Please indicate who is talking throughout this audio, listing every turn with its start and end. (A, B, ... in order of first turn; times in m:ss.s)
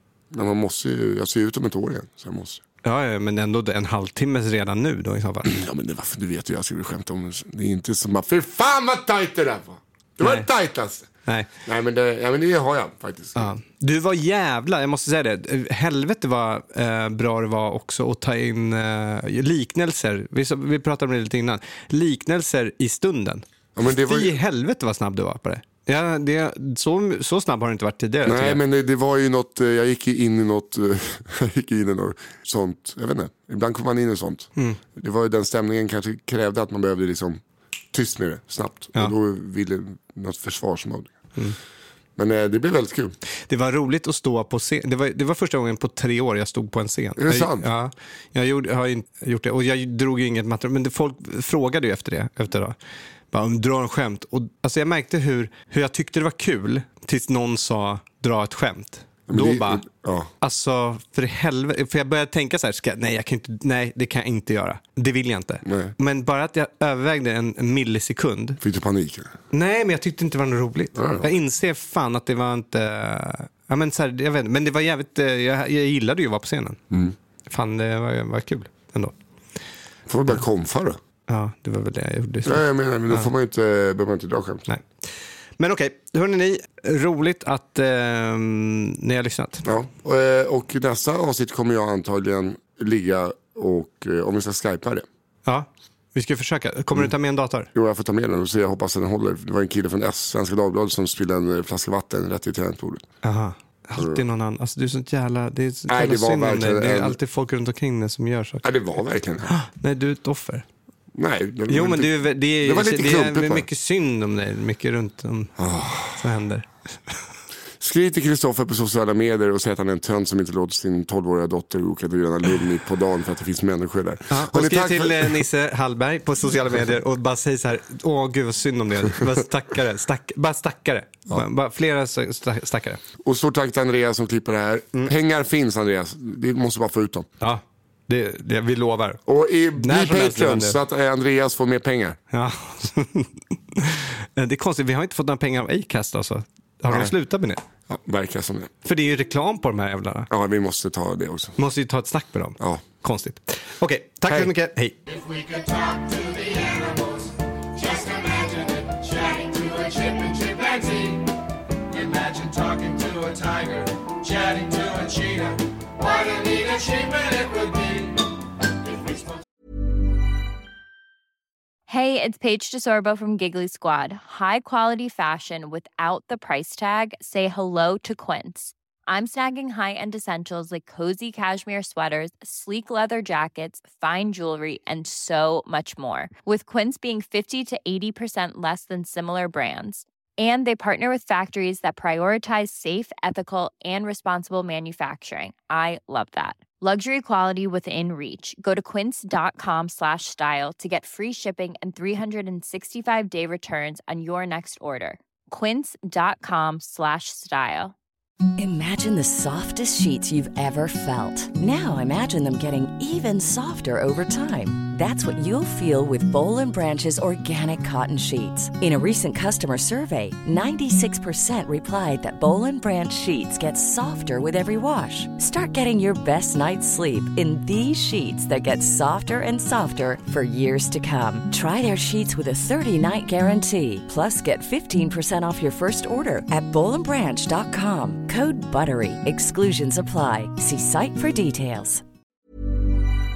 0:00.3-0:02.6 A
0:02.8-0:05.5 B
0:05.4-0:11.1 A
0:10.2-0:10.5 B
0:11.6-0:13.5 A
0:13.4-0:28.6 B
0:23.8-0:24.4 A
0:28.2-0:37.4 A
0:37.9-0:41.1 A
0:42.2-0:43.2 A
0:43.5-0:52.8 B
0:47.2-0:47.7 A
0:53.3-0:59.8 B
0:59.3-1:00.3 A
1:00.4-1:08.6 B
1:05.6-1:06.0 A
1:08.6-1:09.3 A
1:09.5-1:16.8 B
1:11.0-1:11.3 A
1:17.5-1:19.2 B
1:20.1-1:21.0 A
1:21.3-1:23.3 B
1:22.4-1:24.7 A
1:24.7-1:25.1 B
1:25.6-1:29.6 B
1:29.6-1:35.1 A
1:35.5-1:37.7 B
1:37.7-1:43.1 A
1:43.2-1:48.7 B
1:44.0-1:44.2 A
1:45.9-1:47.2 A
1:48.6-1:49.5 A
1:49.5-1:50.6 B
1:51.1-1:53.7 A
1:51.7-1:57.2 B
1:55.6-1:56.2 A
1:57.8-2:05.5 A
2:04.3-2:13.0 B
2:13.2-2:17.3 A
2:17.4-2:19.2 B
2:19.3-2:22.2 A
2:19.8-2:20.8 B
2:22.3-2:27.6 B
2:26.9-2:27.1 A
2:27.9-2:28.7 A
2:28.8-2:30.3 B
2:30.3-2:31.6 A
2:31.6-2:35.0 B
2:34.3-2:34.5 A
2:35.1-2:41.4 C
2:41.9-2:48.3 C
2:48.8-2:49.4 C
2:51.9-3:28.0 D
3:28.6-4:02.0 E